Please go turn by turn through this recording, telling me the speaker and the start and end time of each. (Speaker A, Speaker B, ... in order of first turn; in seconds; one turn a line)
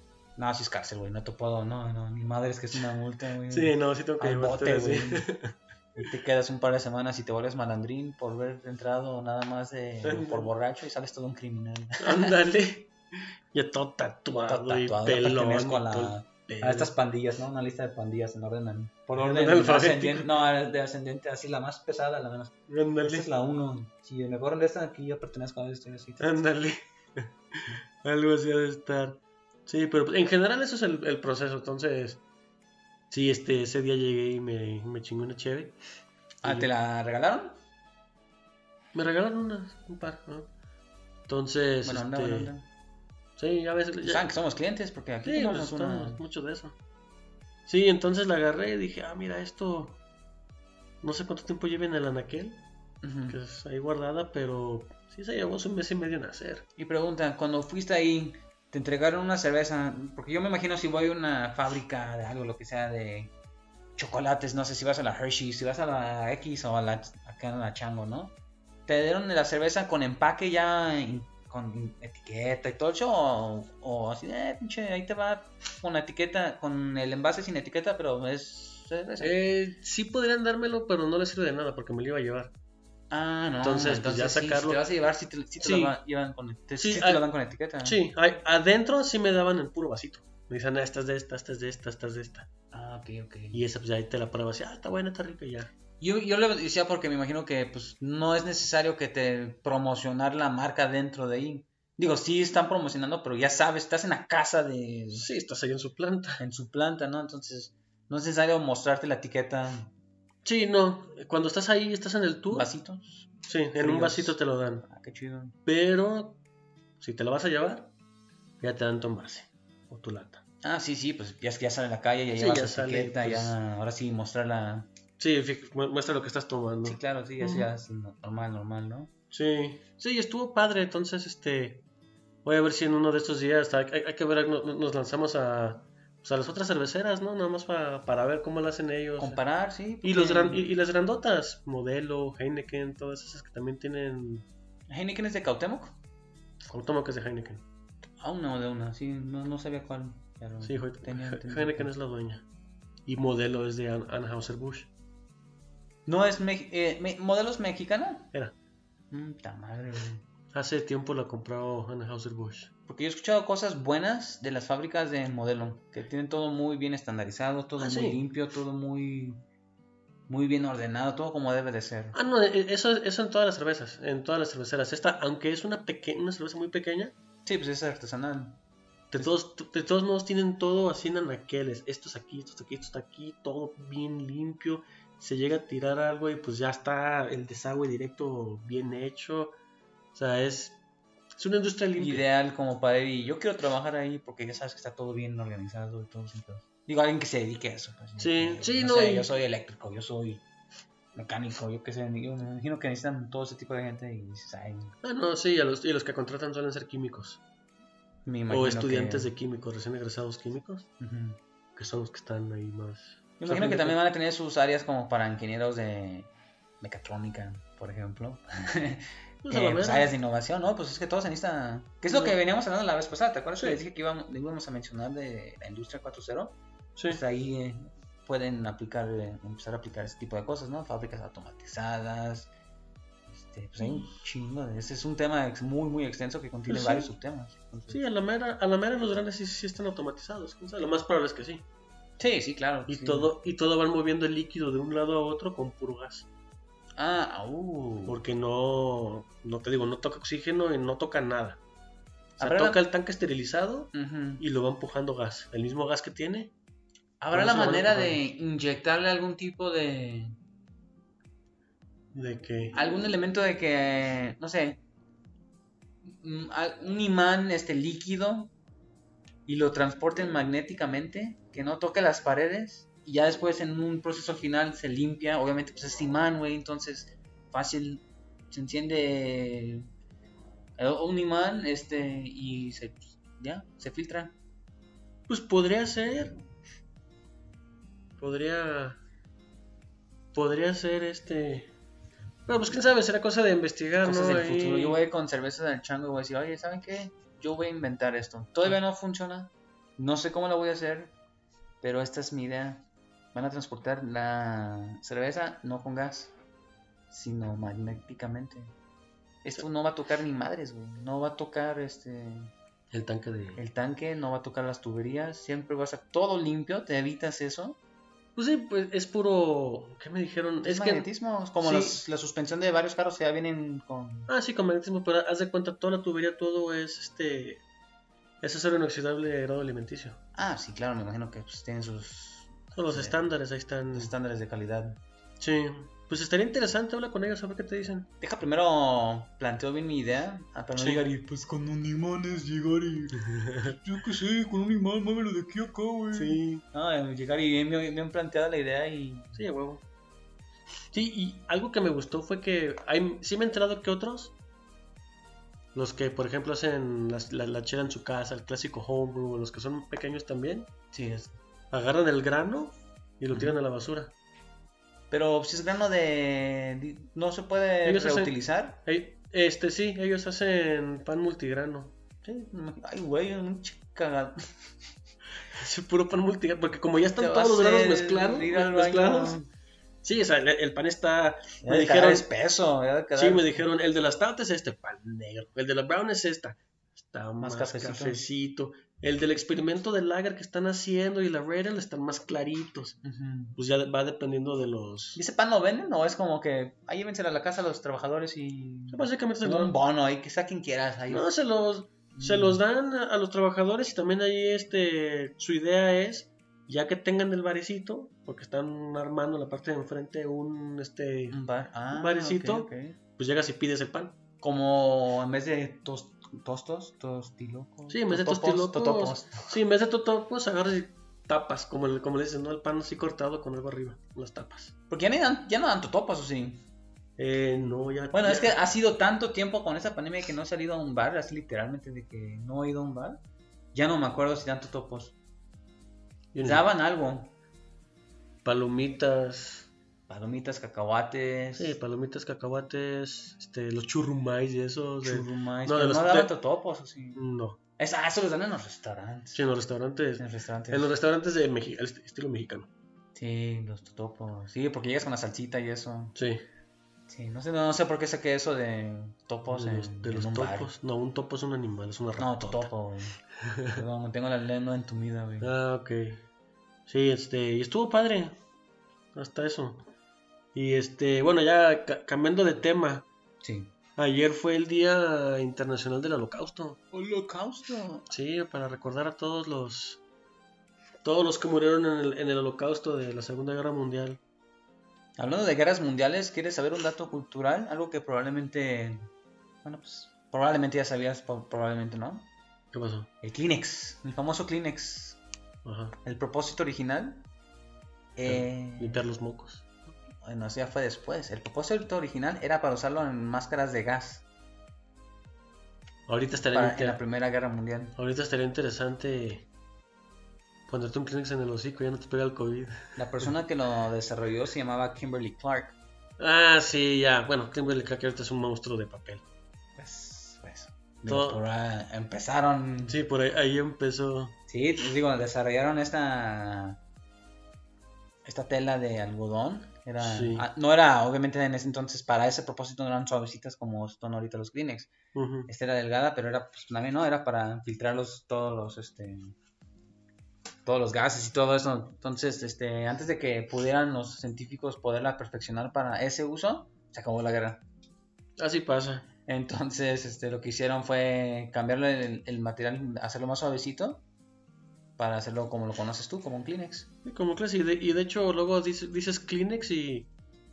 Speaker A: 0.3-5.3
Speaker B: 3.5-5.5
Speaker A: 5.9-12.3
Speaker B: 10.0-10.5
Speaker B: 12.0-16.9
Speaker A: 14.5-26.3
Speaker B: 19.1-20.3
Speaker B: 22.7-23.3
Speaker B: 26.2-32.2
Speaker B: 33.1-35.8
Speaker A: 36.4-37.6
Speaker B: 36.4-36.7
Speaker B: 38.9-40.5
Speaker B: 41.3-42.5
Speaker A: 41.8-42.7
Speaker B: 43.4-44.3
Speaker A: 44.0-46.2
Speaker B: 45.2-46.8
Speaker B: 47.7-50.0
Speaker B: 51.0-52.6
Speaker A: 53.0-53.4
Speaker B: 53.3-56.6
Speaker A: 56.8-63.3
Speaker A: 64.0-68.3
Speaker A: 68.9-79.5
Speaker B: 79.2-82.5
Speaker A: 83.1-88.0
Speaker B: 83.6-84.8
Speaker B: 85.6-86.0
Speaker B: 86.8-87.2
Speaker B: 87.8-92.5
Speaker A: 92.7-93.6
Speaker B: 93.5-95.7
Speaker A: 96.0-105.3
Speaker B: 105.1-106.4
Speaker A: 106.4-109.9
Speaker B: 110.4-112.7
Speaker A: 112.5-115.5
Speaker B: 113.5-114.8
Speaker B: 115.6-116.4
Speaker B: 117.0-117.9
Speaker B: 118.6-120.4
Speaker A: 120.6-124.9
Speaker B: 122.3-123.5
Speaker B: 125.2-127.7
Speaker A: 126.8-129.1
Speaker B: 129.3-131.8
Speaker B: 132.4-139.4
Speaker A: 139.2-140.6
Speaker B: 140.0-144.5
Speaker A: 144.9-146.0
Speaker B: 146.6-147.6
Speaker A: 148.2-151.9
Speaker B: 150.6-152.4
Speaker B: 153.1-154.9
Speaker A: 156.1-158.3
Speaker A: 159.1-160.2
Speaker B: 160.5-162.7
Speaker A: 162.9-169.4
Speaker B: 167.8-168.2
Speaker A: 170.3-172.2
Speaker B: 172.1-177.1
Speaker A: 177.4-178.6
Speaker B: 179.1-189.5
Speaker B: 190.1-190.8
Speaker B: 191.3-192.2
Speaker A: 192.0-200.4
Speaker B: 198.2-199.3
Speaker A: 201.1-204.9
Speaker B: 205.0-207.4
Speaker A: 208.2-209.3
Speaker B: 208.5-210.9
Speaker A: 211.0-211.4
Speaker B: 211.8-214.0
Speaker A: 213.4-216.3
Speaker A: 216.8-232.5
Speaker B: 219.4-220.1
Speaker B: 222.1-222.3
Speaker B: 226.9-227.2
Speaker A: 233.3-238.0
Speaker B: 236.7-237.1
Speaker B: 237.9-241.6
Speaker A: 242.2-243.3
Speaker B: 242.9-246.3
Speaker A: 246.9-248.2
Speaker B: 248.1-251.6
Speaker A: 252.4-252.8
Speaker B: 252.4-256.5
Speaker A: 253.9-254.4
Speaker A: 257.2-260.4
Speaker B: 257.3-258.2
Speaker B: 262.1-262.8
Speaker A: 262.7-264.8
Speaker A: 266.0-268.5
Speaker A: 269.4-279.9
Speaker A: 280.8-284.3
Speaker B: 285.3-286.4
Speaker B: 288.2-289.0
Speaker B: 290.3-291.7
Speaker B: 292.5-295.0
Speaker A: 294.0-301.1
Speaker A: 301.8-306.3
Speaker A: 307.1-308.7
Speaker A: 309.4-312.5
Speaker B: 312.9-313.6
Speaker A: 313.6-317.8
Speaker B: 318.4-321.1
Speaker A: 320.6-324.3
Speaker B: 321.6-322.0
Speaker B: 324.3-327.6
Speaker B: 328.4-330.2
Speaker A: 330.3-333.2
Speaker B: 332.7-334.1
Speaker A: 333.9-335.0
Speaker B: 335.4-338.1
Speaker A: 338.2-349.4
Speaker B: 340.8-341.0
Speaker B: 343.3-343.8
Speaker B: 346.1-346.6
Speaker B: 349.3-349.8
Speaker B: 350.9-354.3
Speaker B: 355.7-360.7
Speaker A: 360.9-361.4
Speaker B: 361.7-364.1
Speaker A: 363.3-363.6
Speaker A: 365.1-368.8
Speaker B: 367.8-372.0
Speaker A: 372.2-374.5
Speaker B: 375.5-379.4
Speaker A: 377.2-379.5
Speaker B: 380.0-382.2
Speaker A: 381.6-383.6
Speaker B: 383.1-393.0
Speaker A: 387.4-388.2
Speaker A: 393.0-393.6
Speaker B: 393.6-395.2
Speaker A: 395.1-401.3
Speaker B: 398.9-399.7
Speaker B: 401.1-411.4
Speaker A: 402.1-402.6
Speaker A: 411.3-413.0
Speaker B: 411.9-414.2
Speaker A: 414.4-419.6
Speaker B: 417.9-424.7
Speaker A: 424.9-426.6
Speaker B: 427.2-428.6
Speaker A: 428.1-433.2
Speaker A: 433.7-435.1
Speaker B: 436.3-436.6
Speaker A: 436.4-437.3
Speaker B: 438.4-439.7
Speaker A: 440.1-441.8
Speaker B: 441.5-446.3
Speaker A: 445.0-447.2
Speaker B: 447.1-447.6
Speaker A: 447.8-449.4
Speaker B: 449.3-452.7
Speaker A: 450.2-450.9
Speaker A: 453.1-456.2
Speaker B: 456.2-456.4
Speaker A: 457.1-460.7
Speaker B: 459.5-462.7
Speaker A: 462.2-465.5
Speaker B: 463.4-463.8
Speaker B: 465.4-466.3
Speaker B: 466.9-468.4
Speaker B: 469.1-469.9
Speaker B: 470.5-473.1
Speaker A: 473.4-473.7
Speaker B: 474.0-476.8
Speaker A: 476.9-478.1
Speaker B: 478.1-480.0
Speaker B: 481.0-484.2
Speaker A: 485.2-489.1
Speaker A: 489.6-492.3
Speaker B: 492.7-493.1
Speaker A: 493.2-495.2
Speaker B: 495.6-495.9
Speaker A: 496.0-497.3
Speaker A: 498.1-499.0
Speaker B: 498.2-499.9
Speaker A: 500.2-504.2
Speaker B: 506.1-507.0
Speaker A: 506.5-508.0
Speaker B: 507.9-509.5
Speaker B: 510.7-513.3
Speaker A: 513.0-515.8
Speaker B: 516.2-519.2
Speaker A: 519.8-523.0
Speaker B: 521.1-521.4
Speaker B: 522.8-524.4
Speaker A: 524.5-526.8
Speaker A: 528.2-534.9
Speaker B: 530.0-530.5
Speaker B: 535.1-535.5
Speaker A: 535.5-539.3
Speaker A: 540.6-547.6
Speaker B: 548.4-549.1
Speaker A: 549.3-554.0
Speaker A: 555.0-556.9
Speaker B: 557.0-560.1